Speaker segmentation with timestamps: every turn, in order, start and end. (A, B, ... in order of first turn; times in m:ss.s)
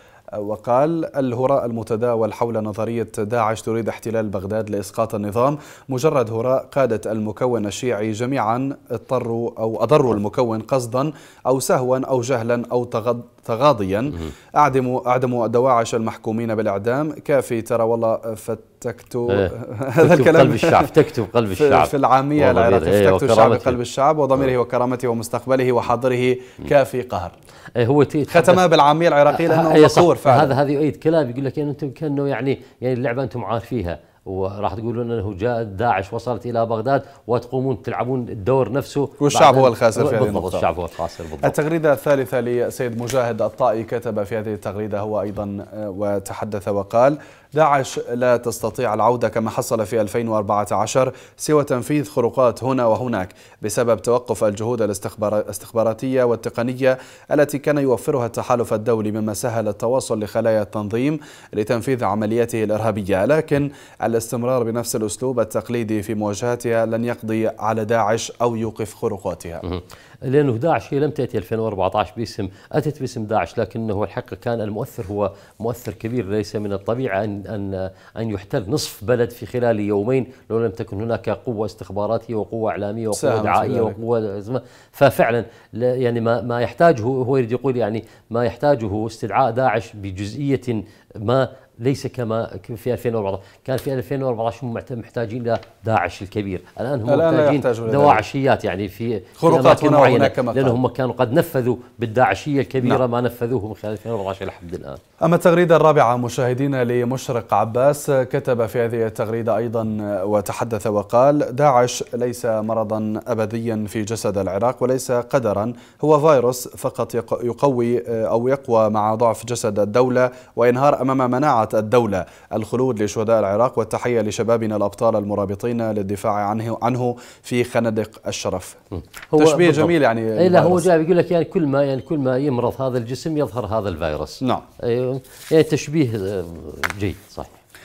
0:00.4-0:20.9 A
0:19.3-0:23.8 B
0:21.6-0:27.3 A
0:27.8-0:28.6 B
0:28.3-0:30.6 A
0:29.3-0:41.6 B
0:39.2-0:40.7 A
0:41.4-1:09.6 A
1:09.6-1:45.0 B
1:23.1-1:24.0 A
1:37.1-1:38.2 A
1:39.4-1:40.8 A
1:45.2-2:08.8 A
2:09.0-2:17.6 B
2:09.4-2:10.9 A